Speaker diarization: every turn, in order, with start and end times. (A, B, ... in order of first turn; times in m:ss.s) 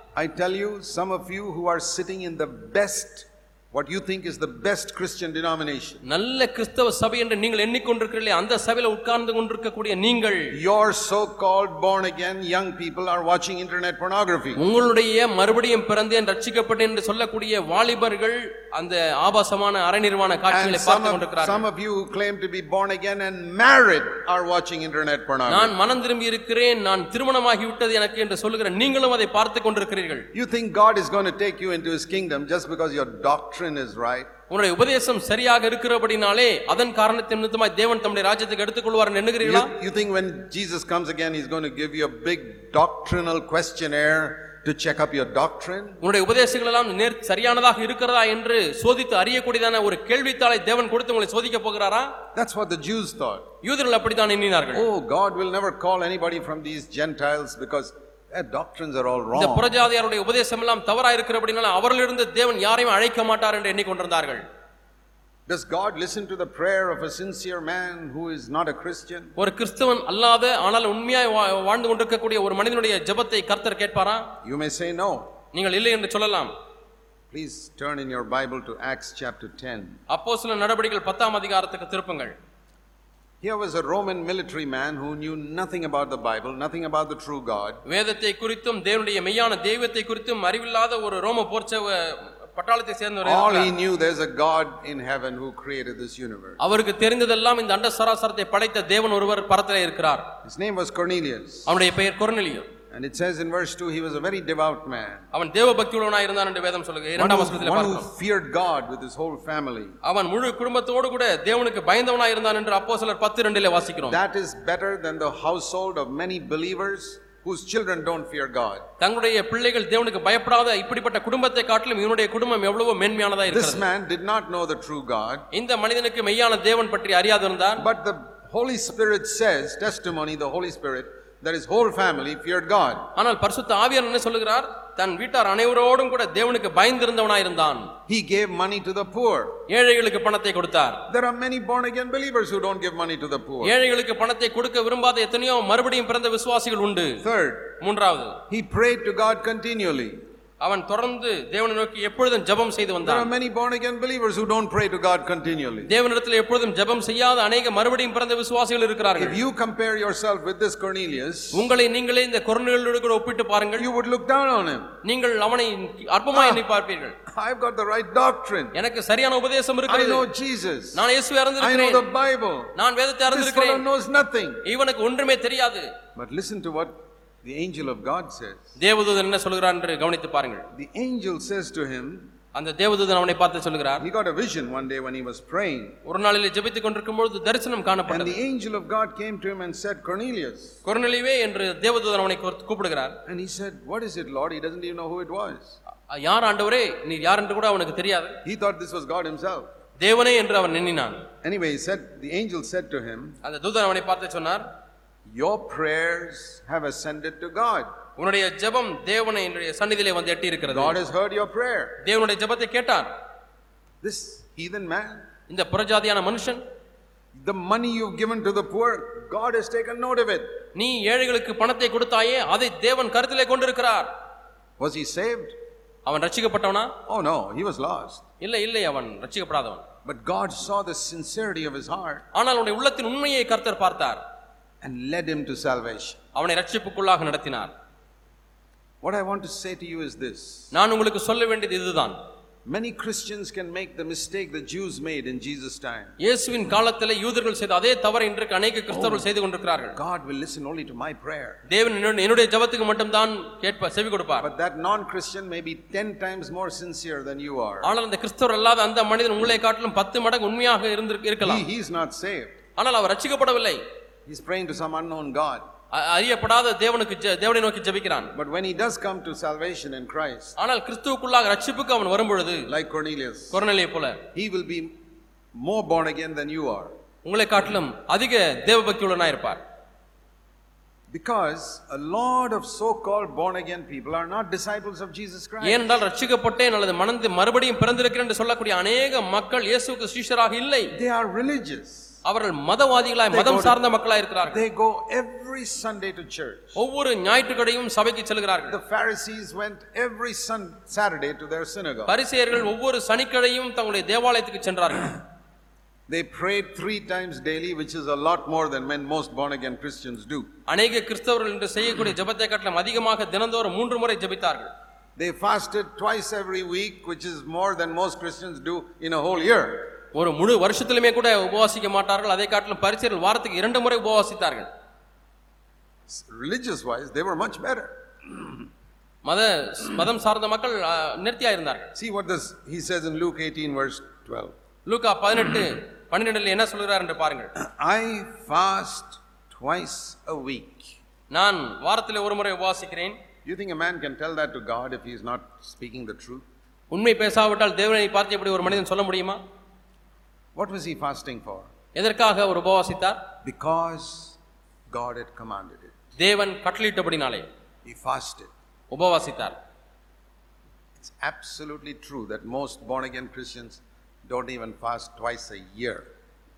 0:00.2-0:06.0 A
0:06.0-0:10.5 B
0:10.5-0:14.6 A
0:14.6-0:21.6 B
0:20.5-0:25.7 A
0:25.5-0:30.3 B
0:30.3-0:34.3 A
0:34.5-0:39.7 B
0:39.4-0:46.0 A
0:46.0-0:52.1 B
0:52.3-0:53.5 A
0:53.6-0:54.8 B
0:54.7-0:59.7 A
0:59.3-1:04.4 B
1:05.5-1:09.3 A
1:09.4-1:14.3 B
1:14.4-1:15.3 A
1:15.5-1:16.5 B
1:17.3-1:20.0 A
1:20.1-1:22.3 B
1:23.4-1:27.8 A
1:27.8-1:33.7 B
1:33.2-1:36.6 A
1:36.6-1:40.3 B
1:40.4-1:41.7 A
1:41.6-1:42.7 B
1:42.9-1:45.2 A
1:45.3-1:48.1 B
1:47.2-1:50.0 A
1:50.0-1:54.2 B
1:54.1-1:58.9 A
1:59.0-2:03.8 B
2:03.5-2:05.5 A
2:05.5-2:07.8 B
2:07.8-2:13.1 A
2:13.2-2:17.9 B
2:18.1-2:19.6 A
2:19.7-2:21.0 B
2:21.1-2:23.7 A
2:23.6-2:27.2 B
2:27.2-2:27.8 A
2:27.8-2:28.4 B
2:28.5-2:30.2 A
2:30.6-2:33.3 B
2:33.0-2:35.9 A
2:35.9-2:39.4 B
2:39.2-2:41.7 A
2:41.5-2:43.9 B
2:43.8-2:44.9 A
2:45.0-2:47.2 B
2:46.3-2:46.6 A
2:47.3-2:48.8 A
2:48.7-2:50.2 B
2:49.9-2:51.1 A
2:50.9-2:52.1 B
2:51.6-2:52.7 A
2:52.8-2:53.8 B
2:53.3-2:54.6 A
2:54.6-2:55.9 B
2:56.1-2:58.7 A
2:58.8-3:00.7 B
3:00.7-3:02.3 A
3:02.5-3:04.0 B
3:04.0-3:06.0 A
3:06.0-3:08.4 B
3:08.1-3:10.8 A
3:10.8-3:13.2 B
3:13.2-3:15.8 A
3:16.1-3:18.4 B
3:18.4-3:19.7 A
3:20.0-3:21.3 B
3:21.4-3:23.4 A
3:23.4-3:24.6 B
3:25.3-3:27.9 A
3:28.2-3:31.0 B
3:30.7-3:32.0 A
3:32.0-3:33.1 B
3:34.0-3:35.2 A
3:35.5-3:36.6 B
3:37.3-3:40.5 A
3:40.7-3:44.1 B
3:44.8-3:45.5 A
3:46.0-3:46.9 B
3:47.0-3:48.2 A
3:48.4-3:49.8 B
3:50.0-3:52.2 A
3:52.3-3:54.2 B
3:54.8-3:56.2 A
3:56.3-3:57.7 B
3:59.0-4:00.7 A
4:00.7-4:02.2 B
4:02.6-4:06.2 A
4:06.2-4:10.0 B
4:08.9-4:09.2 A
4:09.9-4:11.6 A
4:11.7-4:14.5 B
4:14.4-4:17.9 A
4:17.8-4:21.6 B
4:21.4-4:22.5 A
4:22.8-4:23.8 B
4:24.3-4:25.6 A
4:25.9-4:28.3 B
4:28.3-4:30.6 A
4:30.6-4:32.7 B
4:32.7-4:33.6 A
4:33.5-4:34.2 B
4:34.3-4:34.9 A
4:35.6-4:36.9 A
4:37.2-4:39.6 B
4:41.1-4:46.0 A
4:45.6-4:50.9 B
4:50.9-4:52.1 A
4:52.2-4:54.6 B
4:53.3-4:53.8 A
4:54.4-4:56.8 A
4:56.7-4:58.8 B
4:58.7-5:02.1 A
5:02.1-5:05.1 B
5:06.1-5:10.5 A
5:10.7-5:14.7 B
5:15.2-5:19.9 A
5:20.1-5:24.7 B
5:26.1-5:28.6 A
5:29.2-5:31.9 B
5:31.9-5:34.5 A
5:34.8-5:37.5 B
5:37.6-5:41.0 A
5:41.3-5:43.2 B
5:43.4-5:46.4 A
5:46.9-5:49.4 B
5:50.5-5:51.7 A
5:51.9-5:53.2 B
5:53.4-5:54.4 A
5:54.9-5:55.9 A
5:56.2-5:57.5 B
5:57.8-5:58.5 A
5:58.9-5:59.6 B
6:01.0-6:06.0 A